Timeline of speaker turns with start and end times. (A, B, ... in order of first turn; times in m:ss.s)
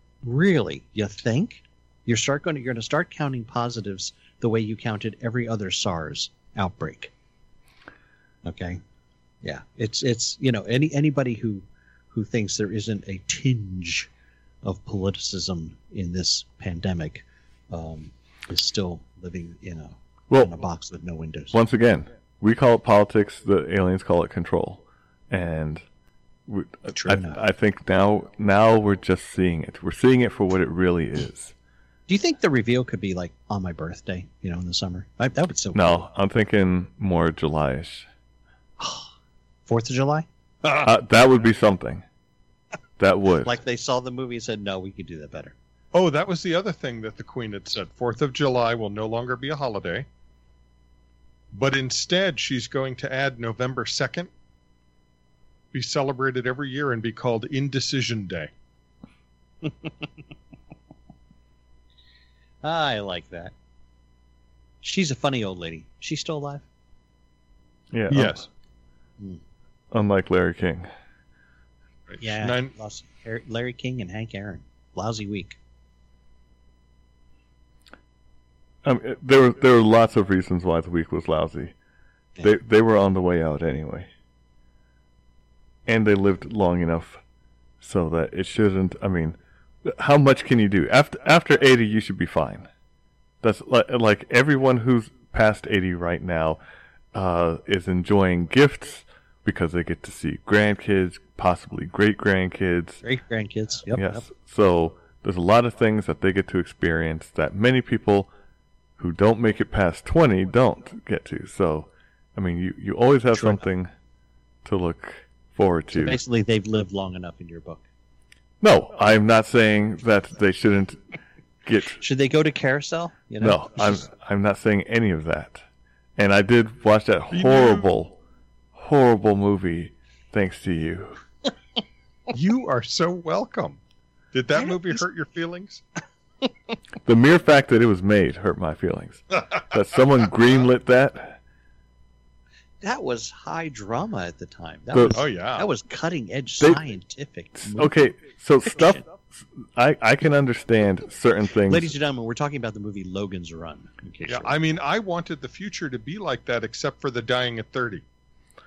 0:00.2-0:07.1 A
0:08.4-0:08.8 A
0:09.4-0:14.1 A
0:14.6-0:21.6 A
0:20.3-0:20.6 B
0:21.5-0:25.8 B
0:26.5-0:31.5 B
0:26.9-0:27.4 A
0:32.1-0:36.1 A
0:35.7-0:38.1 B
0:38.8-0:39.1 A
0:39.7-0:40.3 A
0:40.8-0:42.0 B
0:43.0-0:43.6 B
0:43.4-0:45.6 A
0:45.9-0:50.1 C
0:51.5-0:54.3 C
0:55.7-0:58.5 C
1:02.6-1:03.5 A
1:04.8-1:06.6 A
1:07.9-1:08.4 B
1:08.1-1:08.5 C
1:09.9-1:10.9 B
1:12.1-1:12.7 C
1:12.2-1:15.6 A
1:18.8-1:21.7 B
1:22.4-1:24.1 B
1:25.9-1:27.2 B
1:27.8-1:32.7 B
1:33.4-1:36.6 B
1:37.1-1:43.0 B
1:43.0-1:44.3 A
1:43.9-1:48.3 B
1:49.0-1:53.9 B
1:53.3-1:53.6 A
1:54.6-1:56.2 B
1:55.9-1:57.8 A
1:58.6-2:01.0 B
2:01.6-2:02.0 B
2:02.0-2:04.0 A
2:03.4-2:05.6 B
2:06.2-2:08.2 B
2:07.3-2:07.9 C
2:08.8-2:11.2 B
2:12.3-2:13.8 C
2:14.3-2:15.8 C
2:14.6-2:15.0 A
2:17.0-2:21.4 B
2:22.8-2:28.0 A
2:24.9-2:25.2 B
2:25.1-2:25.7 C
2:27.6-2:31.9 B
2:31.7-2:34.5 A
2:34.3-2:38.0 C